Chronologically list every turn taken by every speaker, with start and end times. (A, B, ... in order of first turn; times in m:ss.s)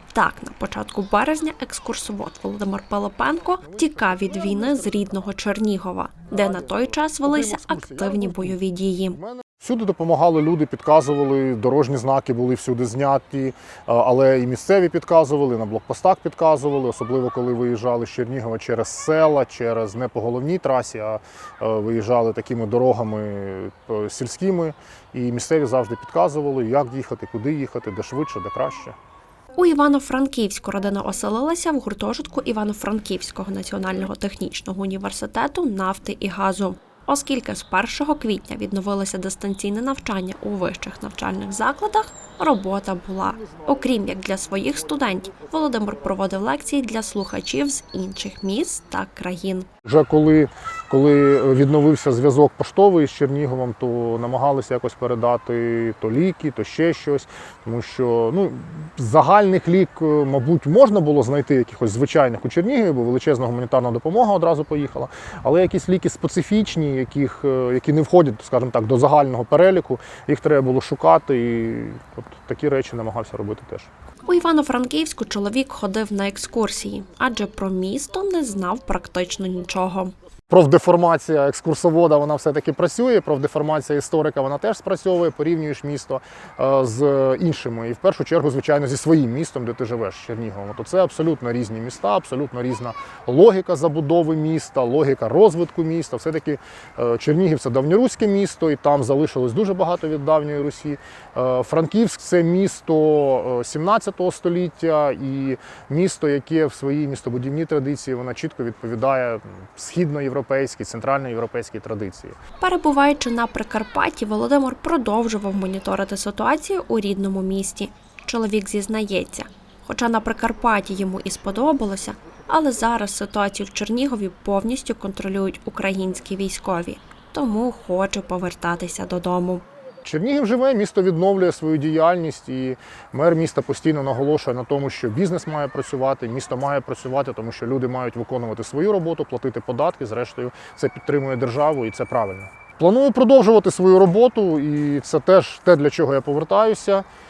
0:00.1-0:09.2 A
0:03.5-0:05.2 B
0:06.3-0:08.6 B
0:09.1-0:29.0 B
0:29.6-0:49.7 A
0:49.8-1:13.9 B
1:14.2-1:20.1 A
1:20.5-1:52.4 B
1:52.6-2:09.6 A
2:10.0-2:27.1 B